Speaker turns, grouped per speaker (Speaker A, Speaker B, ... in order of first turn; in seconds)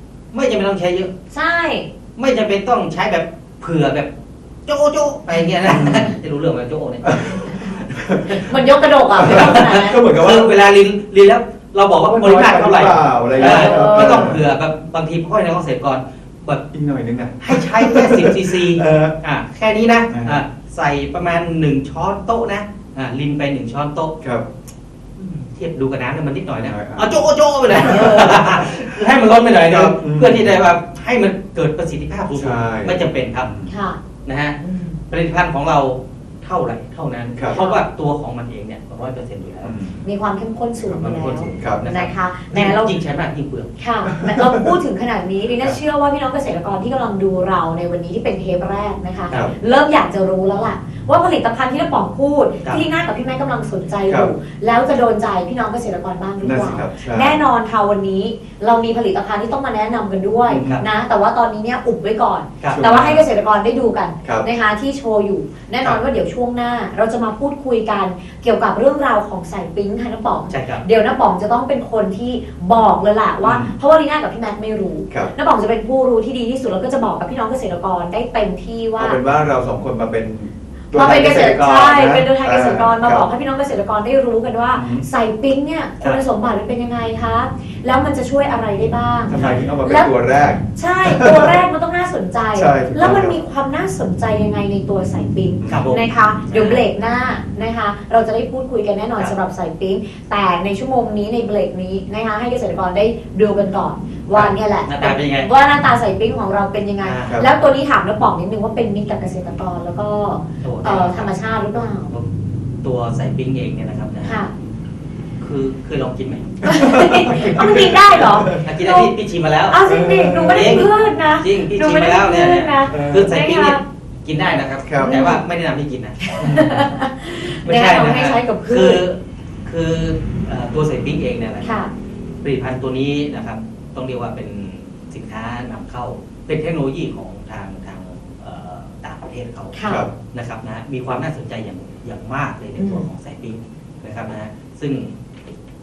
Speaker A: 0.3-1.1, 2.2-4.1, 4.7-8.5, 9.2-16.6, 17.4-24.1, 25.2-33.5, 34.2-34.6, 35.1-39.8, 40.9-43.7, 60.5-60.8, 70.5-70.8, 89.3-89.6, 95.7-96.8, 104.3-105.5, 107.0-107.4, 110.6-111.3, 112.8-114.4, 115.4-117.8, 118.5-119.8, 120.5-126.2, 127.5-131.8, 132.4-145.1
Speaker B: 1.3-1.9, 8.3-10.0, 13.4-14.3, 33.7-34.0, 34.6-35.0, 37.5-37.8, 40.0-42.9, 43.8-79.2, 80.9-90.1, 90.7-112.1, 114.2-114.5, 116.6-119.1, 119.7-123.8, 125.0-125.4, 126.2-129.0, 131.6-131.9, 139.7-140.1, 142.8-143.1
Speaker C: 5.6-6.1, 7.0-8.5, 9.2-10.5, 12.0-14.4, 16.7-19.2, 20.1-20.4, 26.6-28.9, 29.6-30.6, 32.3-33.7, 37.4-37.6, 39.6-40.0, 40.8-41.9, 44.1-44.7, 54.0-54.3, 56.4-57.4, 60.5-60.8, 62.7-63.2, 73.4-73.8, 79.0-83.3, 84.7-85.0, 89.3-91.6, 92.5-93.4, 95.6-95.9, 116.7-118.6, 119.8-120.9, 122.9-123.3, 124.8-125.2, 126.4-126.9, 139.8-140.1